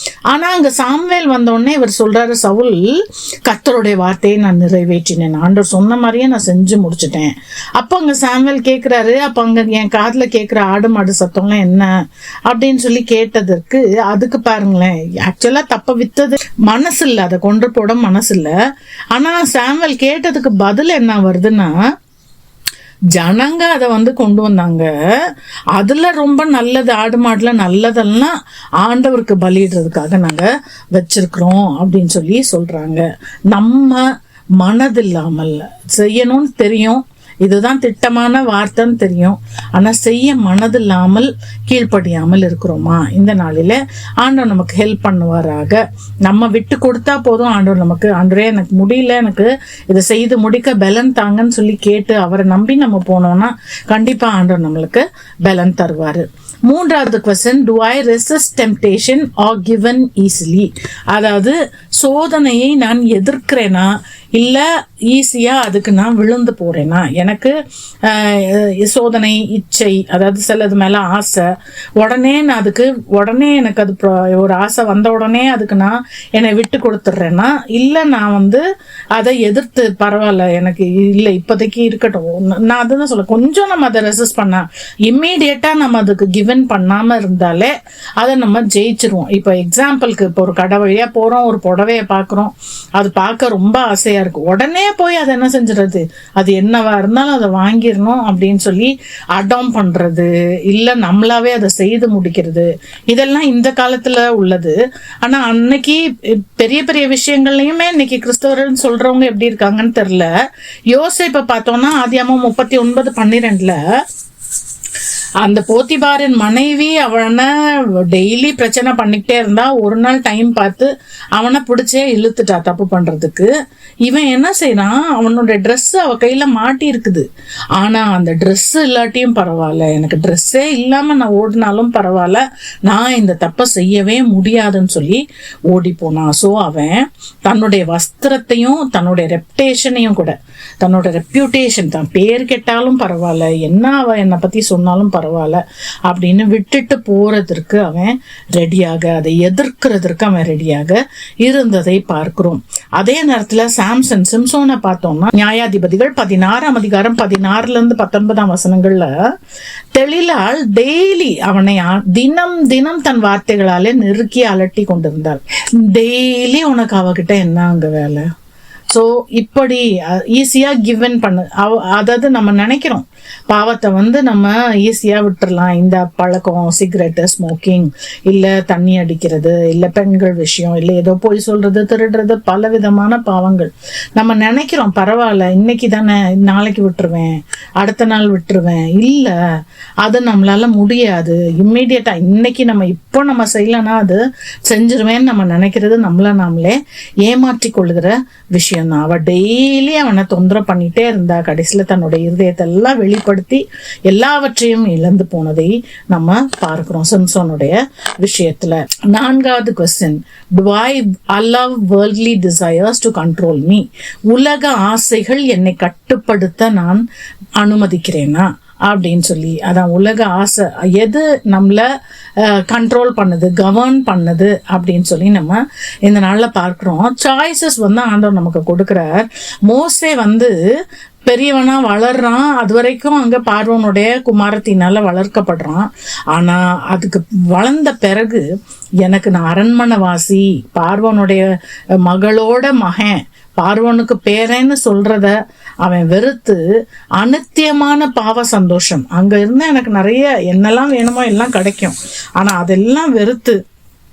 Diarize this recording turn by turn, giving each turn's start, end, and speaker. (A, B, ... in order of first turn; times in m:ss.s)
0:00.3-0:11.9 A
0:12.5-0:18.5 A
0:19.1-0:21.8 A
0:23.2-0:34.1 A
0:34.6-1:18.6 A
1:19.2-1:50.3 A
1:50.9-1:53.8 A
1:55.4-2:03.5 A
2:04.0-2:07.3 A
2:07.8-2:39.1 A
2:40.0-2:48.3 A
2:48.9-3:09.4 A
3:10.0-3:37.0 A
3:37.6-3:41.9 A
3:42.4-3:50.5 A
3:51.3-3:58.5 A
3:59.0-4:01.5 A
4:02.0-4:06.6 A
4:07.2-4:13.6 A